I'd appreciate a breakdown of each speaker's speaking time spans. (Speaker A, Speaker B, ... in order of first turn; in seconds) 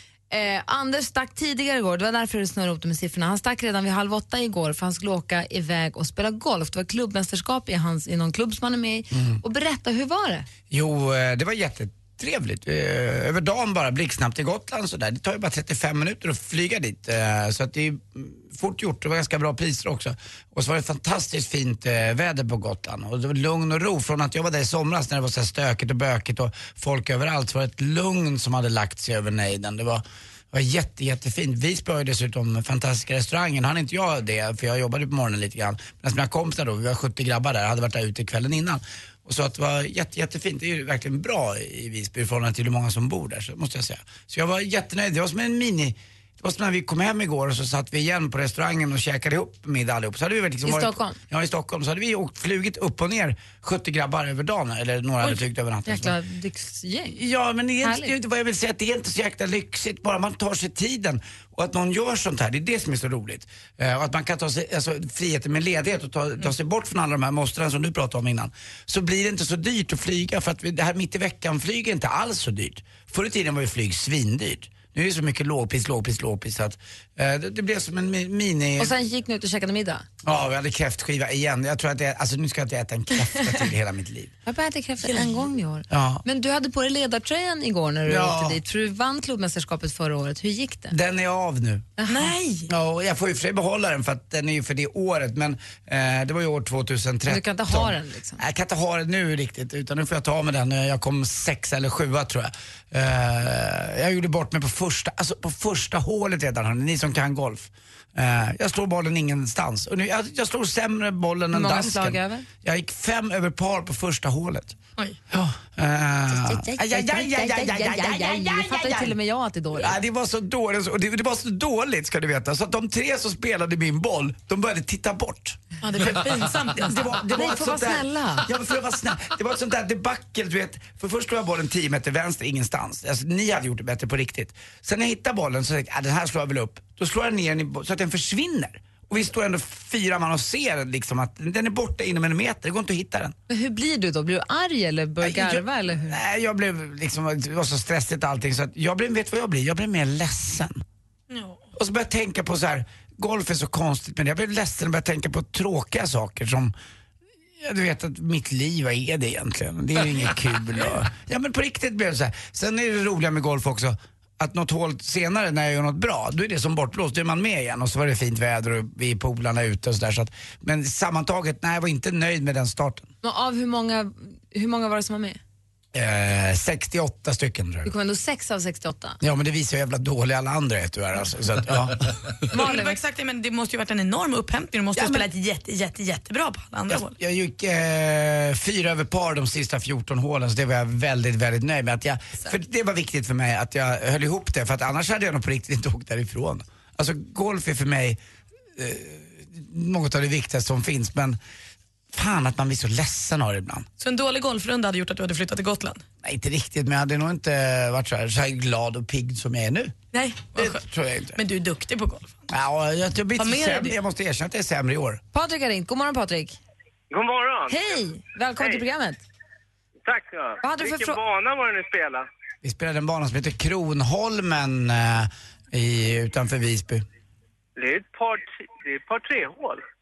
Speaker A: 0.3-10.5, 50.6-51.2, 55.9-57.2, 57.8-58.1, 78.8-80.0, 84.5-90.9, 92.0-92.3, 97.3-98.4, 111.5-112.5, 116.3-120.0, 127.3-128.5, 143.5-146.2, 173.2-175.4, 177.8-179.2, 182.5-183.0, 215.3-216.6, 217.7-219.2, 220.6-221.2
Speaker B: 9.1-9.4, 10.7-56.1, 57.1-78.9, 80.2-84.3, 85.9-86.2, 88.0-88.6, 90.9-91.9, 92.7-114.8, 115.3-119.2, 119.7-143.3, 145.2-150.8, 151.7-156.7, 157.6-173.1, 175.9-177.9, 179.2-182.2, 184.9-185.3, 186.9-198.2, 198.8-201.4, 202.1-203.9, 206.2-209.9, 210.5-211.4, 212.5-215.2, 222.6-227.0
Speaker C: 85.0-85.4, 92.1-92.7, 125.8-127.2, 151.3-151.6, 182.5-187.1, 204.0-206.0, 210.1-210.8, 211.3-212.4, 213.4-213.9
Speaker D: 217.1-218.0, 220.0-222.2, 227.8-229.8